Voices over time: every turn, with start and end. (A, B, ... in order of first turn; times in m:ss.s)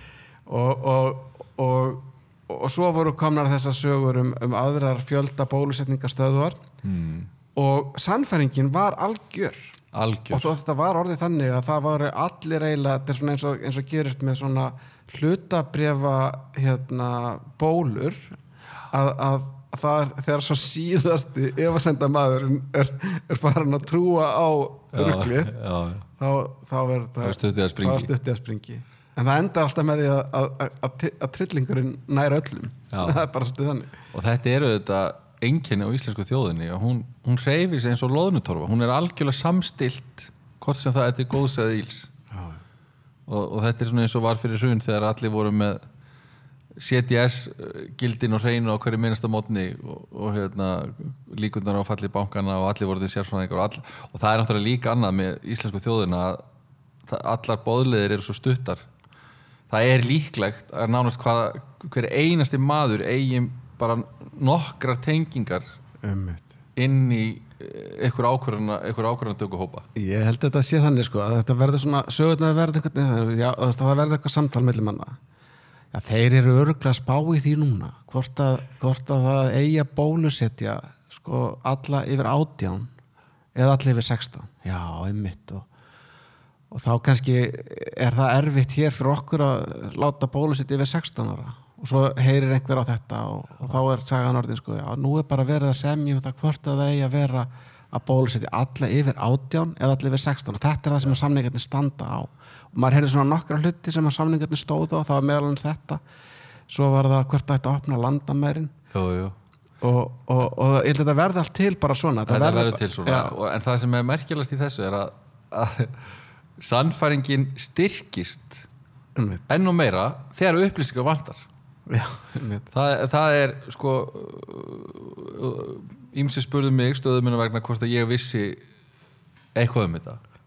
0:00.5-0:06.6 A
0:06.8-0:07.3 B
0:07.5-0:09.8 A
0:09.9-0:10.6 B
0:10.3-0:18.4 A
0:18.9-0:25.6 A
0:24.9-0:26.0 B
0:26.2-0:34.0 A
0:27.2-0:28.1 B
0:32.9-0:33.2 B
0:34.1-0:42.1 B
0:42.3-0:42.6 A
0:43.3-0:45.9 B
0:46.8-0:56.4 B
0:57.0-0:58.9 B
0:59.7-1:05.7 B
1:06.0-1:06.5 A
1:06.8-1:09.9 B
1:10.0-1:15.2 A
1:15.9-1:22.9 A
1:23.5-1:25.7 A
1:26.7-1:46.0 A
1:46.7-1:48.7 A
1:48.9-1:49.4 B
1:49.8-1:53.4 A
1:52.3-1:58.7 B
1:59.2-1:59.4 A
1:59.5-2:01.4 B
2:01.9-2:02.7 A
2:02.7-2:08.6 B
2:09.5-2:10.2 B